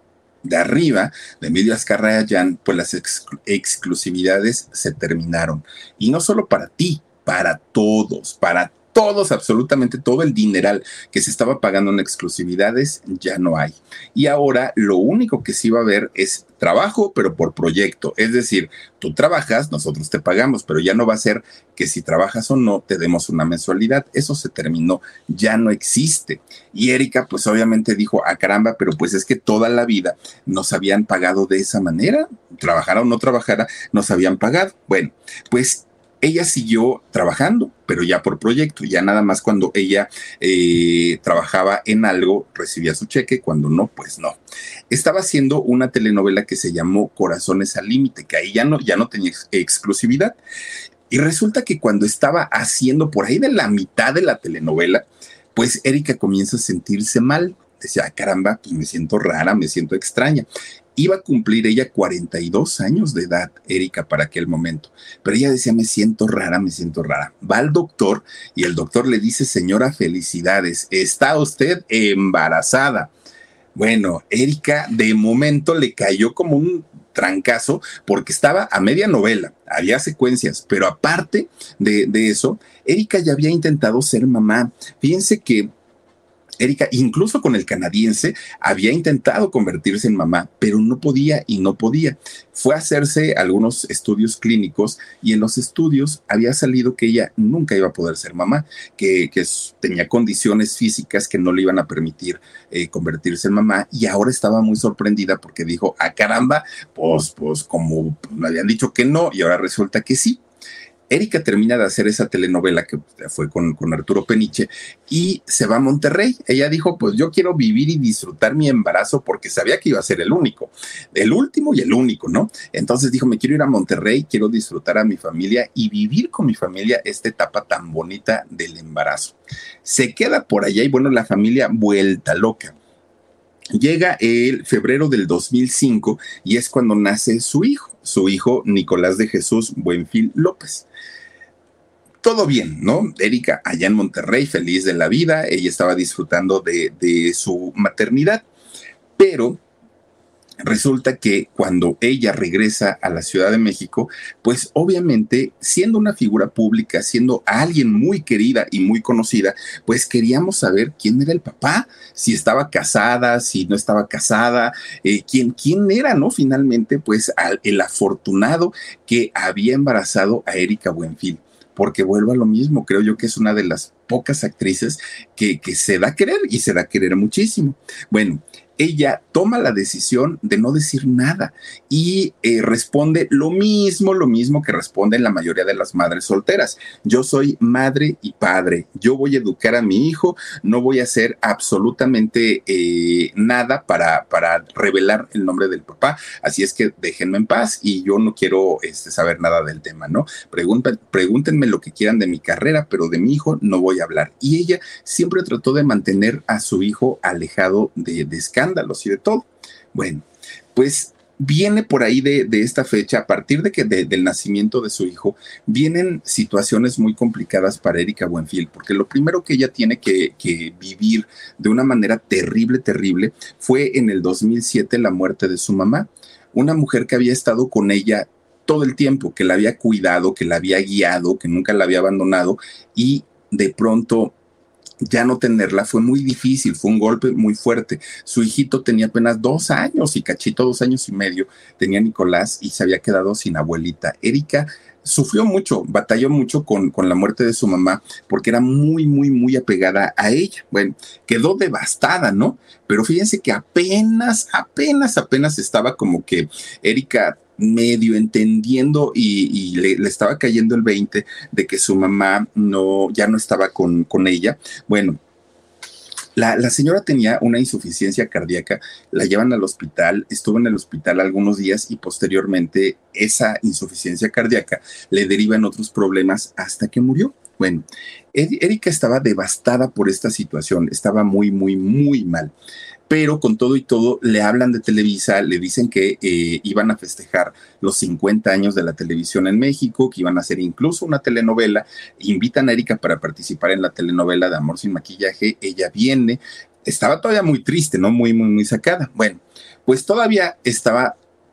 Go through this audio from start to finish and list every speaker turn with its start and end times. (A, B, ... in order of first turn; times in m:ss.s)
0:00.4-0:44.4 A
0:44.9-0:50.4 A
0:51.1-1:13.1 A
1:13.8-1:25.7 A
1:26.6-1:50.4 A
1:51.1-2:12.7 A
2:13.7-2:20.8 A
2:22.2-2:28.4 A
2:29.2-2:29.6 A
2:30.6-3:30.2 A
3:30.7-3:54.3 A
3:55.0-4:25.2 A
4:26.4-4:42.5 A
4:43.1-5:01.2 A